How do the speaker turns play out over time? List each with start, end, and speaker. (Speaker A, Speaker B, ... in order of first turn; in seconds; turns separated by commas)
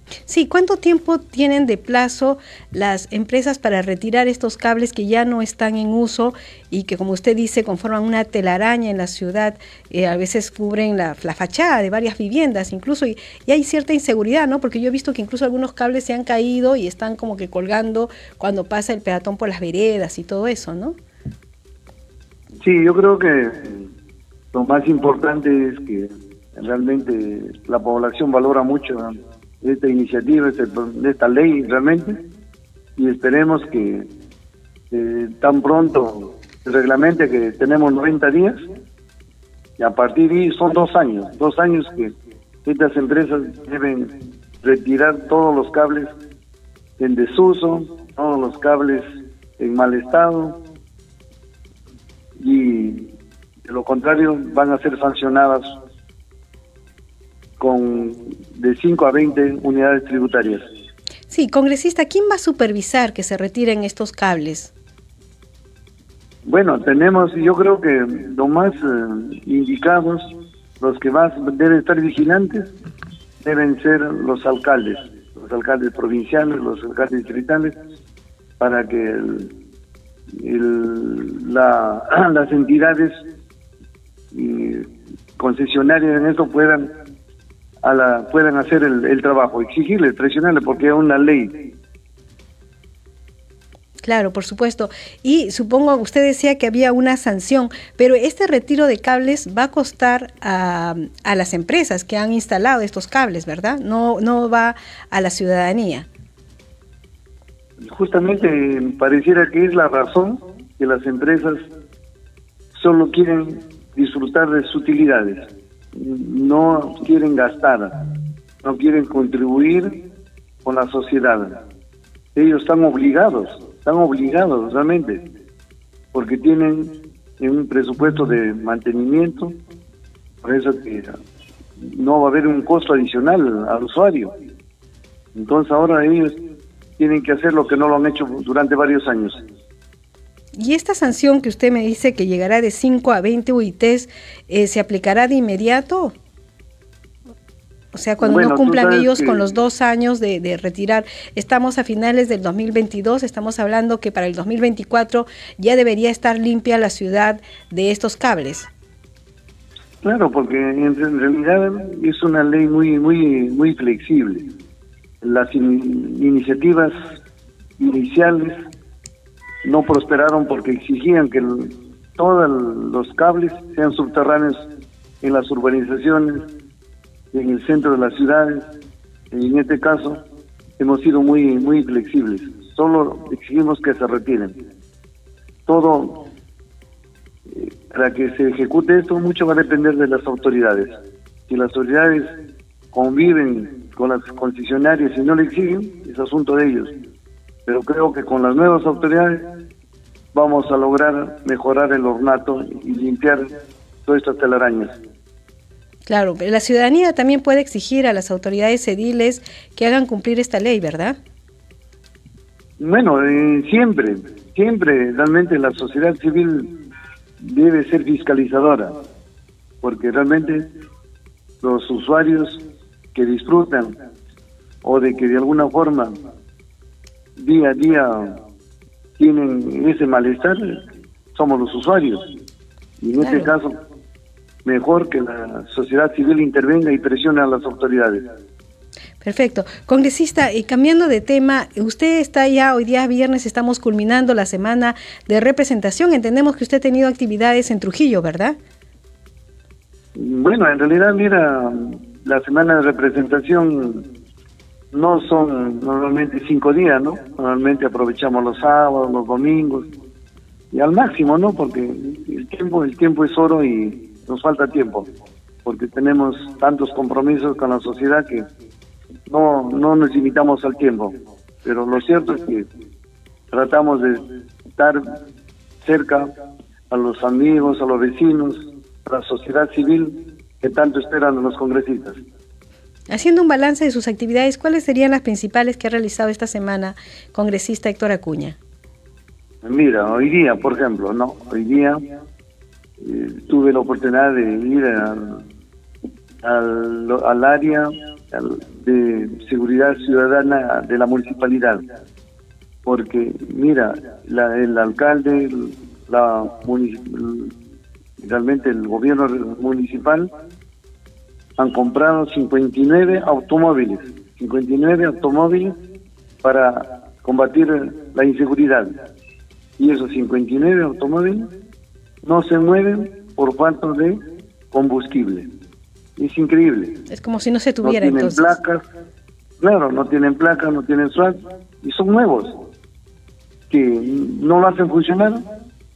Speaker A: 0.3-21.0, Speaker B: 22.6-23.9, Speaker B: 24.5-32.2, Speaker B: 33.0-34.1, Speaker B: 34.9-38.6, Speaker B: 39.8-42.1, Speaker B: 42.6-46.1, Speaker B: 47.0-50.6, Speaker B: 52.4-53.1, Speaker B: 53.7-55.7, Speaker B: 57.6-60.6, Speaker A: 61.3-64.7, Speaker B: 66.5-72.7, Speaker B: 73.4-77.8, Speaker B: 78.6-79.5, Speaker B: 80.3-83.2, Speaker B: 84.3-86.9, Speaker B: 87.8-91.7, Speaker A: 94.0-106.1, Speaker B: 107.8-111.6, Speaker B: 112.8-118.0, Speaker B: 118.6-120.0, Speaker B: 120.6-121.6, Speaker B: 122.3-125.2, Speaker B: 126.1-129.6, Speaker B: 130.4-131.2, Speaker B: 131.8-134.3, Speaker B: 135.3-136.4, Speaker B: 137.0-139.4, Speaker A: 140.6-146.2, Speaker A: 147.9-158.7, Speaker B: 148.2-149.5, Speaker B: 160.0-164.5, Speaker B: 165.2-166.9, Speaker B: 167.8-168.6, Speaker B: 169.6-174.6, Speaker B: 175.2-176.5, Speaker B: 177.3-178.7, Speaker B: 179.3-180.2, Speaker B: 180.8-184.6, Speaker B: 185.7-186.2, Speaker B: 187.5-190.9, Speaker B: 191.5-192.4, Speaker B: 192.9-196.9, Speaker B: 197.7-199.5, Speaker B: 200.3-203.5, Speaker B: 204.1-204.9, Speaker A: 206.1-211.2, Speaker B: 212.8-216.8, Speaker B: 217.4-218.9, Speaker B: 219.8-220.7, Speaker B: 221.6-222.6, Speaker B: 223.2-224.0, Speaker B: 224.8-226.2, Speaker B: 227.4-228.4, Speaker B: 229.2-230.8, Speaker B: 231.3-232.2, Speaker B: 233.0-233.8, Speaker A: 233.2-233.5, Speaker B: 234.7-238.2, Speaker A: 239.2-248.6, Speaker B: 250.2-254.1, Speaker B: 254.9-259.9, Speaker B: 260.7-265.1, Speaker B: 265.6-268.5, Speaker B: 269.3-272.7, Speaker B: 273.5-274.2, Speaker B: 274.8-275.1, Speaker B: 275.8-276.3, Speaker B: 276.9-282.2, Speaker A: 283.1-288.6, Speaker B: 289.6-292.0, Speaker B: 293.0-295.4, Speaker B: 296.4-301.8, Speaker B: 302.9-307.6, Speaker B: 308.2-310.3, Speaker B: 311.6-315.8, Speaker B: 316.4-318.9, Speaker B: 319.8-321.5, Speaker B: 322.2-325.5, Speaker B: 326.2-327.0, Speaker A: 327.1-328.6, Speaker B: 327.8-328.8, Speaker B: 329.6-332.6, Speaker B: 333.7-335.5